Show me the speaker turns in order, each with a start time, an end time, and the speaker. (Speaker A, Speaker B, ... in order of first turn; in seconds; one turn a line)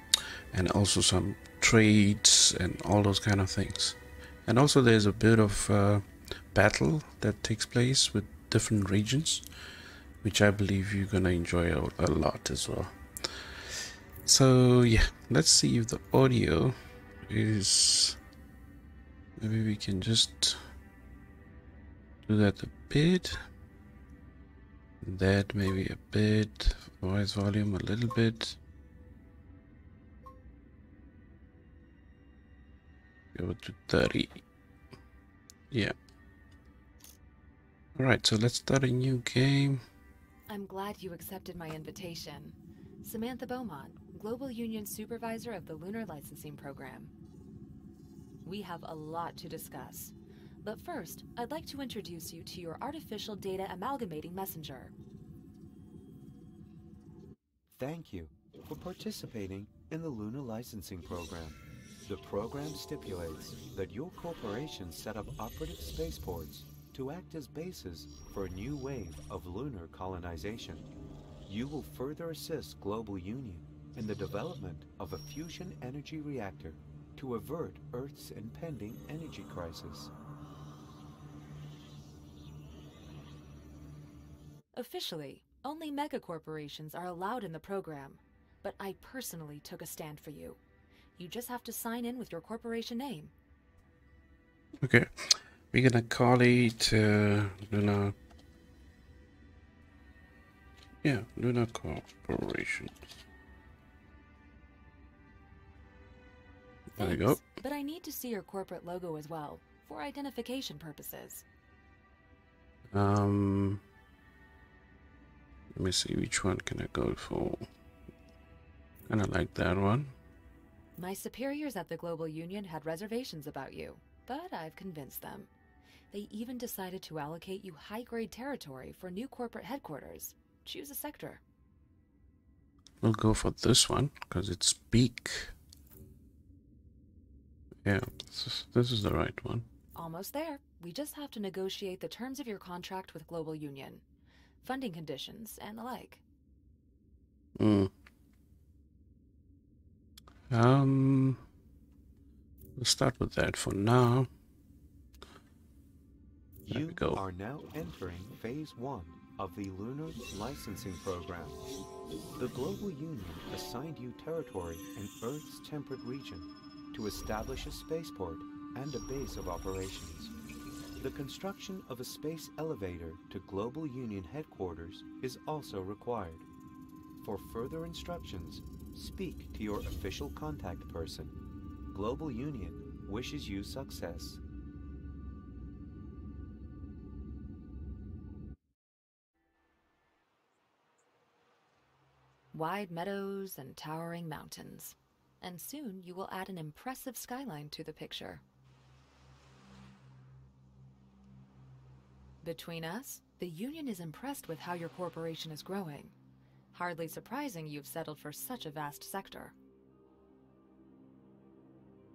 Speaker A: 0.5-9.5
Speaker A: 10.2-18.2
Speaker A: 19.4-20.6
Speaker A: 22.2-23.4
Speaker A: 25.0-28.6
Speaker A: 33.3-34.4
Speaker A: 37.9-39.8
Speaker B: 40.5-47.1
Speaker B: 48.4-54.9
Speaker C: 57.7-70.8
Speaker C: 71.5-80.1
Speaker B: 84.7-90.6
Speaker B: 91.2-93.3
Speaker A: 94.8-98.2
Speaker A: 101.0-103.0
Speaker A: 106.9-107.4
Speaker B: 107.0-111.4
Speaker A: 112.9-113.8
Speaker A: 115.7-117.7
Speaker A: 119.1-120.2
Speaker B: 121.0-125.5
Speaker B: 126.1-131.4
Speaker A: 133.0-135.5
Speaker A: 137.8-139.7
Speaker B: 139.9-144.0
Speaker B: 144.6-146.2
Speaker A: 147.6-147.9
Speaker A: 150.5-151.5
Speaker A: 152.8-154.3
Speaker C: 156.6-161.6
Speaker A: 156.7-157.2
Speaker C: 162.4-170.3
Speaker C: 171.0-176.4
Speaker C: 177.2-181.3
Speaker C: 181.9-184.4
Speaker B: 192.5-198.4
Speaker B: 202.4-206.1
Speaker B: 206.7-209.5